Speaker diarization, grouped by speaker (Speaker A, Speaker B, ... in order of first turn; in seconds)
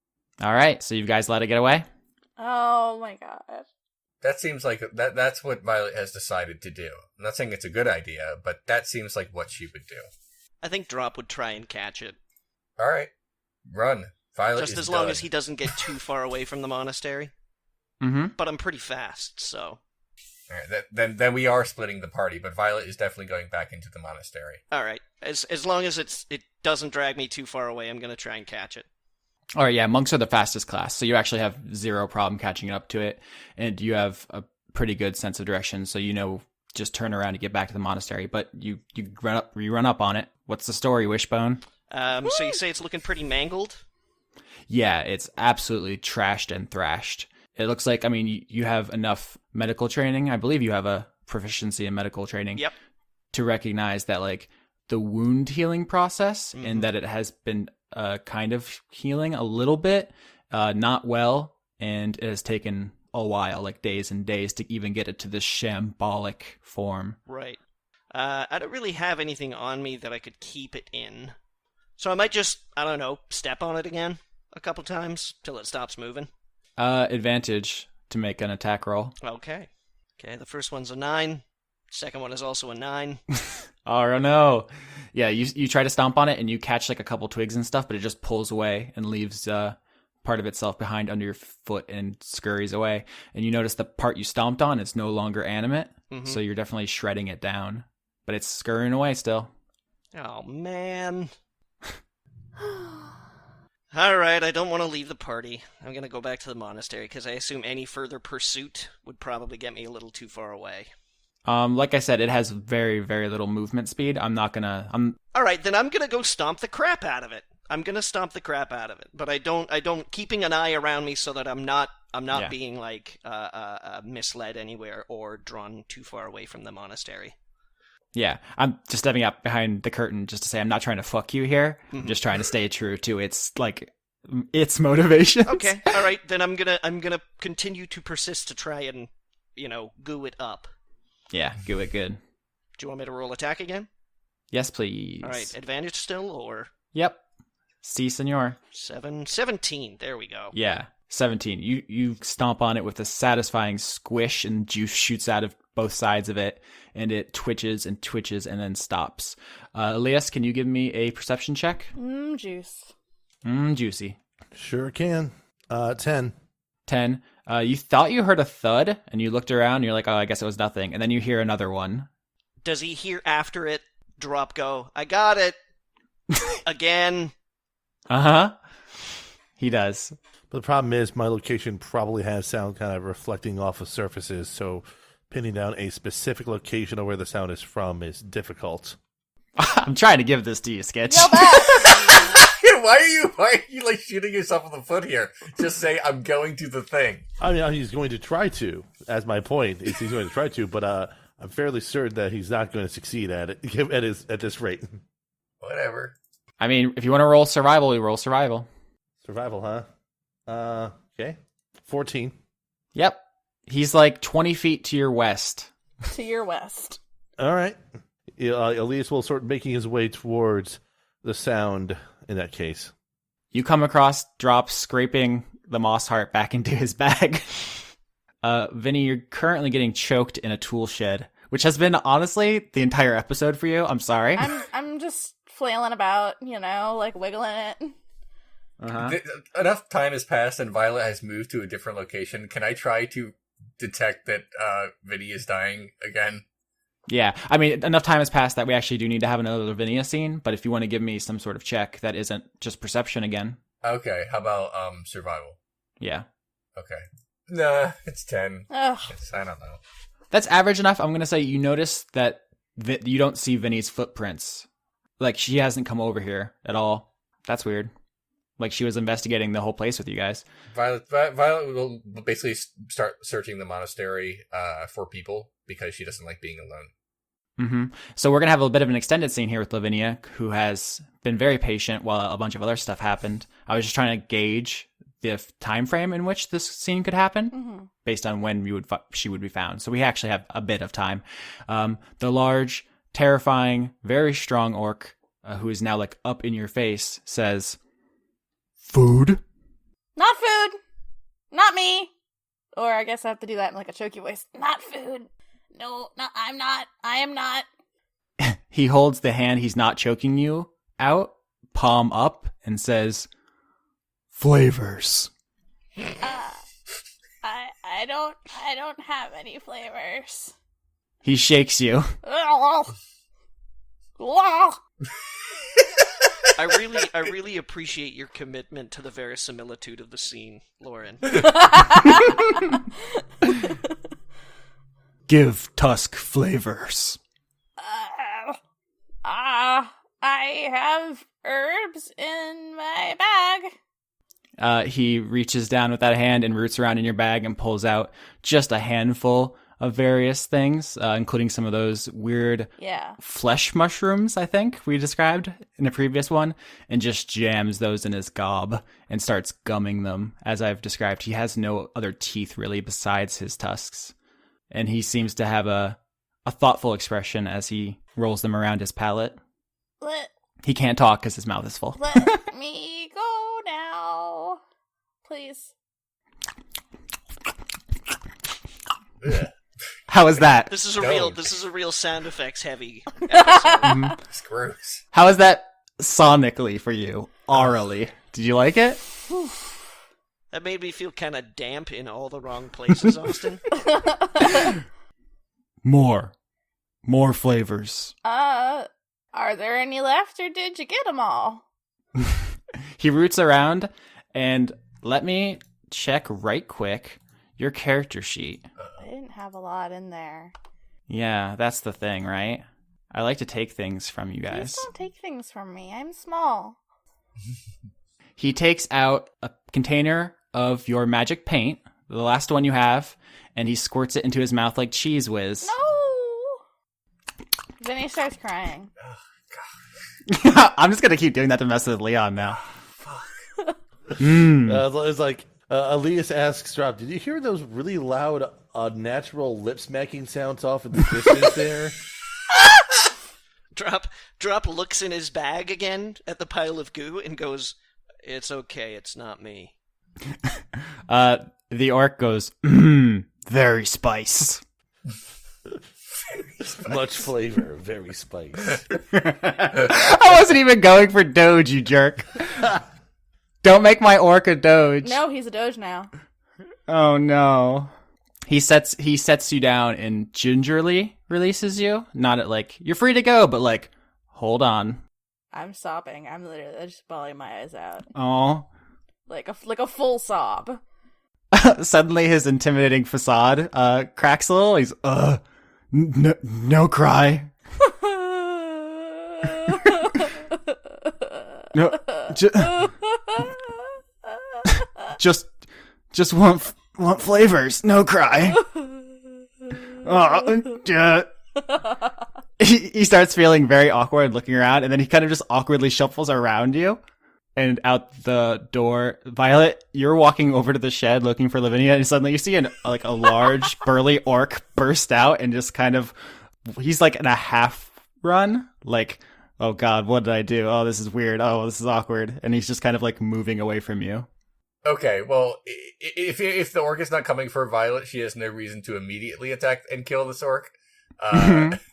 Speaker A: 0.4-1.9, 18.0-18.3, 29.6-41.6, 44.7-52.6, 53.3-67.2, 76.8-79.1, 83.8-99.5, 111.4-115.2, 128.1-135.9, 141.3-142.2, 144.5-145.5, 146.9-147.2, 147.8-148.6, 150.5-161.9, 163.4-164.2, 166.9-172.1, 178.1-178.5, 179.6-180.1, 189.6-191.9, 206.6-208.7, 212.9-215.7, 223.5-227.8, 228.4-234.5, 238.8-239.2, 247.1-253.6, 256.0-256.2, 260.3-264.6, 265.2-267.9, 268.6-270.4, 277.6-297.8, 298.8-299.4, 308.4-313.3, 314.3-315.3, 321.2-322.1, 335.3-337.2, 344.6-364.1, 364.7-369.4, 370.6-372.4, 380.1-380.7, 383.8-384.2, 385.1-389.0, 394.4-394.8, 395.8-396.3, 397.0-398.1, 402.9-408.6, 411.1-414.9, 418.4-425.7, 430.3-432.6, 434.2-434.8, 451.1-454.6, 459.1-462.7, 463.6-465.2, 466.9-467.9, 468.5-475.0, 478.1-478.7, 481.5-485.4, 485.9-487.5, 491.7-492.9, 494.6-495.5, 496.1-498.7, 500.0-501.3, 502.6-507.0, 507.6-516.1, 516.7-524.3, 531.3-531.8
Speaker B: 2.4-3.7, 162.0-162.9, 191.1-192.4, 216.1-217.0, 234.4-237.9, 258.7-259.1, 287.5-287.9, 300.1-300.8, 301.5-302.1, 302.7-307.6, 316.2-316.6, 317.4-320.5, 322.2-322.9, 324.2-324.8, 331.3-332.6, 333.4-333.7, 337.8-338.6, 339.2-343.7, 352.8-353.2, 370.0-370.3, 372.0-374.6, 375.2-375.7, 383.6-383.9, 393.8-394.7, 398.2-401.6, 409.0-410.5, 414.5-416.8, 425.6-426.6, 427.8-428.9, 465.0-466.1, 475.5-478.1, 479.3-480.8, 487.8-490.4, 491.1-493.5
Speaker C: 4.2-10.1, 12.8-13.1, 13.7-15.2, 20.5-24.6, 191.9-197.2, 205.6-206.1, 239.0-246.4, 253.8-255.6, 256.8-259.8, 270.7-276.9, 379.2-379.5, 381.0-381.4, 384.2-385.0, 429.0-429.7, 433.0-433.3, 456.6-456.9, 524.8-531.8
Speaker D: 10.6-12.2, 14.6-17.3, 18.4-19.8, 24.7-28.9, 41.9-43.8, 56.5-56.9, 67.3-67.6, 68.1-71.3, 72.0-76.3, 79.2-83.2, 96.1-96.4, 100.1-101.3, 103.9-110.9, 115.3-127.3, 131.9-132.2, 135.5-140.7, 142.8-143.9, 145.2-146.7, 148.7-150.5, 172.6-175.6, 176.6-177.3, 326.5-331.6, 380.7-383.9, 390.5-393.7, 443.7-449.7
Speaker E: 164.5-166.3, 180.5-189.0, 197.4-205.0, 209.2-209.8, 210.5-212.3, 217.4-217.8, 218.3-222.9, 434.6-442.0, 456.8-458.8